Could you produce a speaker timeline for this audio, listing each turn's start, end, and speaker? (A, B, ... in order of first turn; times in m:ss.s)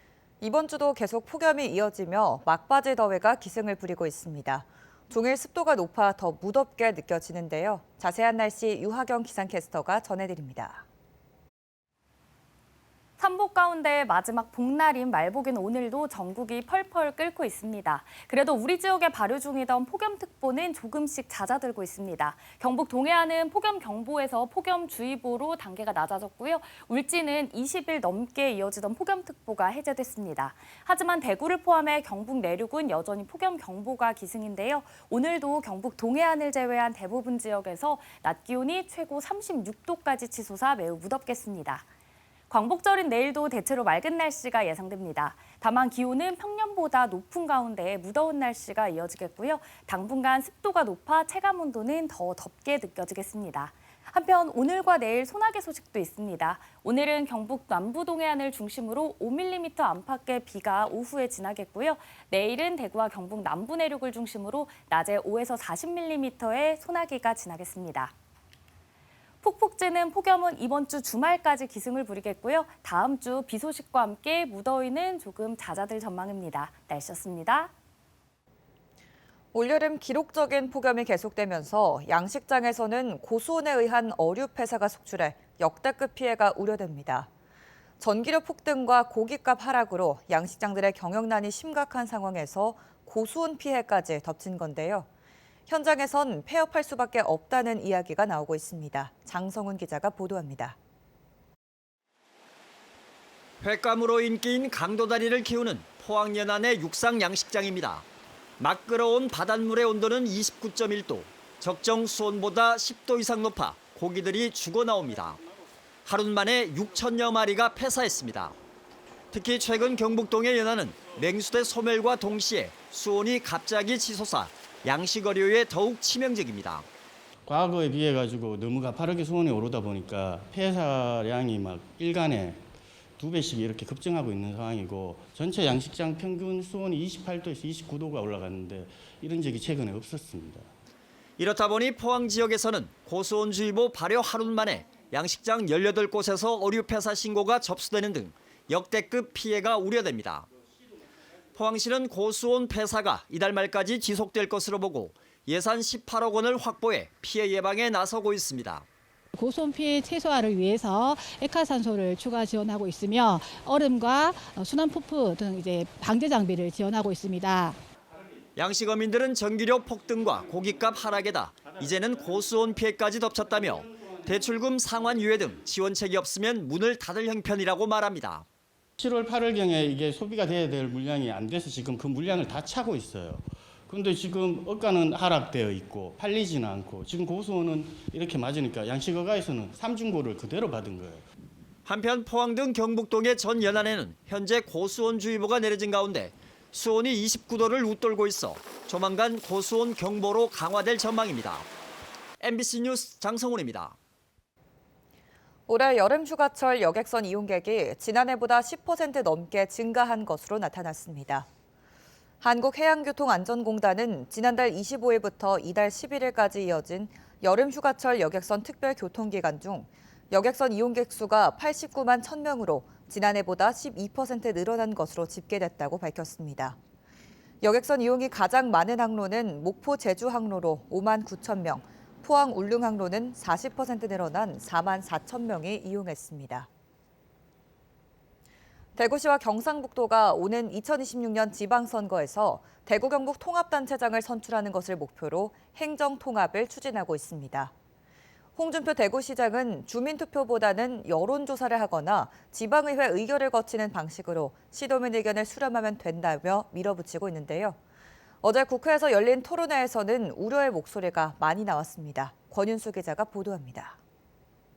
0:00.4-0:10.8 A
0:13.2-0:41.8 B
0:42.5-1:08.1 B
1:09.4-1:17.7 B
1:19.5-1:27.3 A
1:28.0-1:35.1 A
1:35.7-1:40.8 A
1:43.6-1:48.0 C
1:48.6-1:55.4 C
1:56.0-1:58.5 C
1:59.3-2:06.9 C
2:07.5-2:12.6 D
2:13.2-2:20.7 D
2:21.4-2:30.5 C
2:31.6-2:38.8 C
2:39.3-2:47.8 E
2:48.6-2:58.4 C
2:59.0-3:11.2 D
3:11.8-3:21.7 C
3:22.4-3:24.0 C
3:25.7-3:31.5 A
3:32.4-3:46.8 A
3:47.6-3:56.7 A
3:59.0-4:07.7 A
4:08.6-4:17.8 A
4:18.4-4:24.0 A